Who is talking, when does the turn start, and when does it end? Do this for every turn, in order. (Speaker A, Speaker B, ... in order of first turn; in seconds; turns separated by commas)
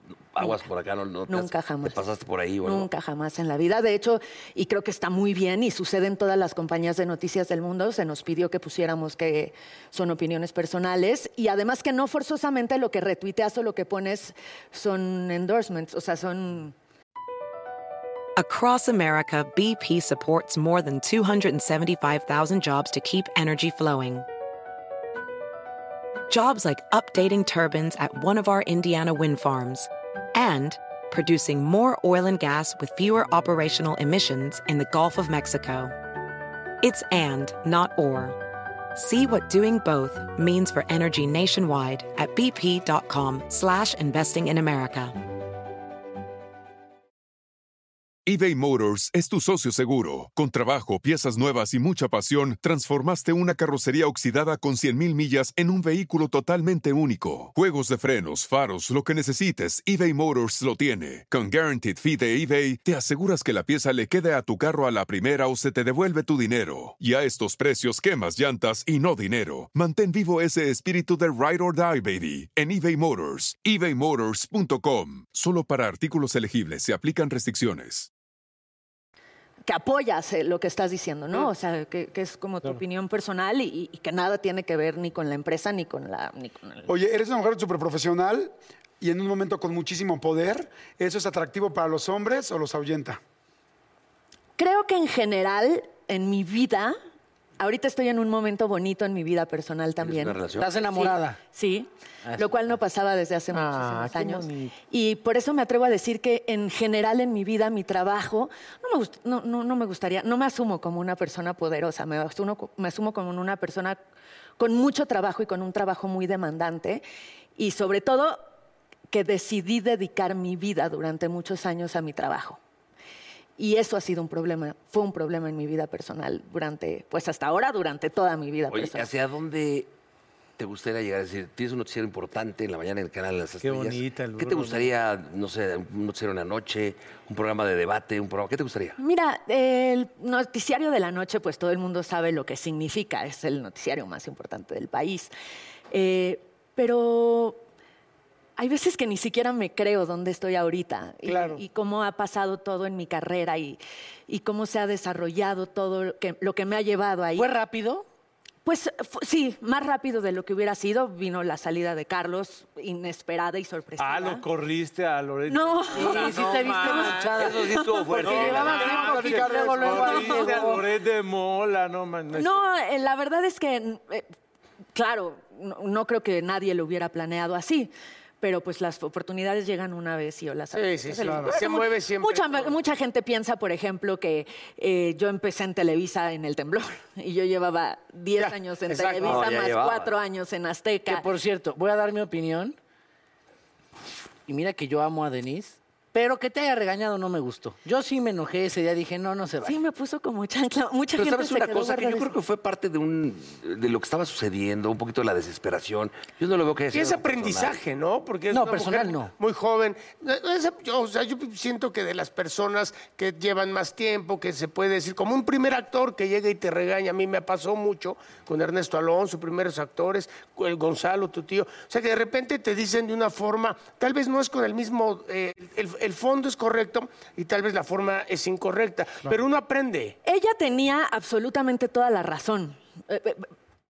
Speaker A: 0.3-2.9, Speaker B: 1.3-2.0, Speaker B: 2.6-16.8, Speaker C: 18.4-24.3, Speaker C: 26.3-35.9, Speaker C: 36.8-38.4, Speaker C: 39.0-45.1, Speaker D: 48.3-78.1, Speaker B: 79.7-86.9, Speaker E: 86.9-93.2, Speaker B: 94.6-97.0, Speaker B: 97.6-114.0, Speaker A: 100.0-100.8, Speaker F: 100.6-101.4, Speaker F: 102.2-102.7, Speaker G: 103.5-104.7, Speaker B: 114.6-117.0, Speaker B: 117.6-118.4, Speaker B: 119.1-122.6, Speaker B: 123.6-129.1, Speaker A: 128.7-129.9, Speaker A: 130.6-139.0, Speaker G: 133.6-134.9, Speaker B: 139.0-145.3, Speaker B: 145.9-147.6, Speaker B: 148.6-157.5, Speaker H: 151.3-151.6, Speaker F: 157.4-158.1, Speaker B: 158.7-164.5, Speaker G: 164.0-167.6, Speaker B: 165.5-168.1, Speaker F: 165.9-170.8, Speaker A: 167.3-169.1, Speaker G: 168.2-172.7, Speaker E: 168.7-170.6, Speaker B: 172.3-174.3, Speaker B: 174.9-191.3, Speaker H: 180.7-182.7, Speaker E: 181.2-181.5, Speaker H: 188.4-189.4, Speaker A: 189.2-190.2, Speaker F: 191.1-192.8, Speaker F: 194.5-199.8, Speaker B: 199.6-202.3, Speaker A: 201.2-207.8, Speaker H: 206.9-230.2, Speaker F: 208.5-209.3, Speaker B: 230.2-233.5